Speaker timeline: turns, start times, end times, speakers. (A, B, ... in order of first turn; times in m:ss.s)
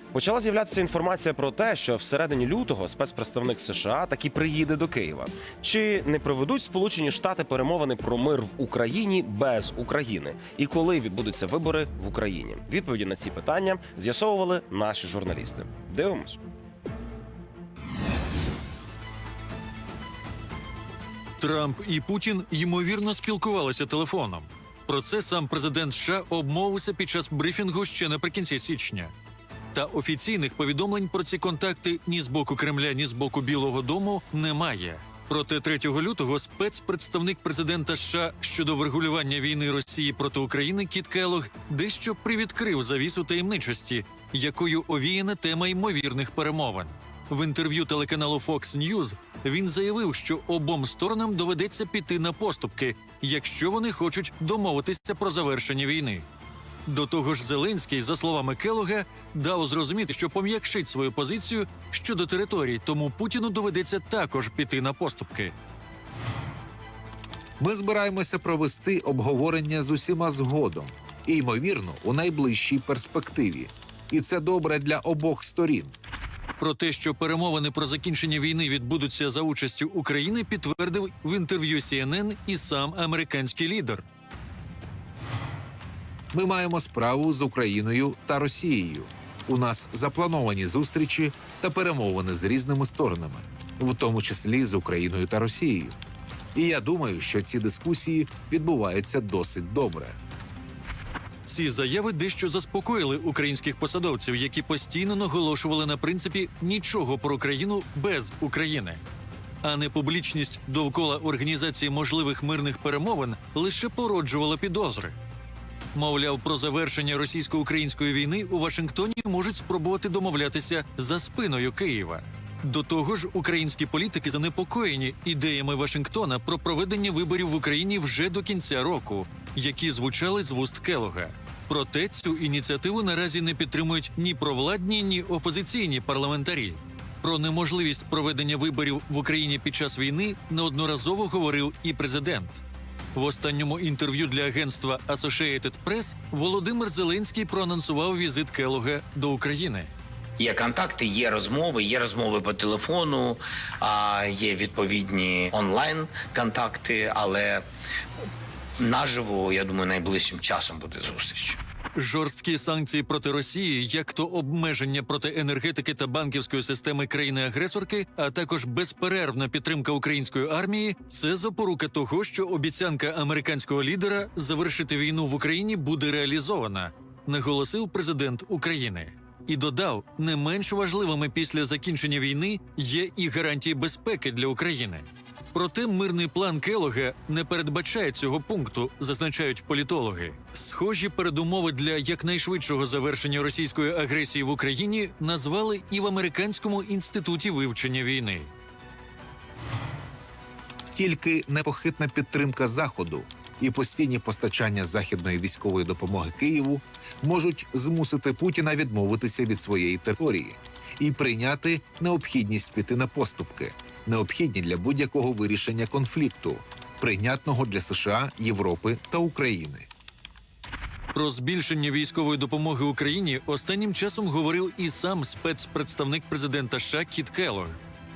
0:00.1-0:16.4 A
0:21.4-0:29.1 B
0:29.7-0:56.2 B
0:56.9-1:05.5 B
1:07.6-1:15.9 C
1:16.6-1:24.0 B
1:26.3-1:36.0 C
1:36.6-1:40.2 C
1:41.4-1:49.0 B
1:49.6-1:55.2 B
1:55.9-2:22.6 B
2:23.2-2:29.9 B
2:30.4-2:37.6 D
2:38.8-2:41.6 D
2:42.0-3:18.5 B
3:20.9-3:39.9 C
3:41.1-3:47.8 B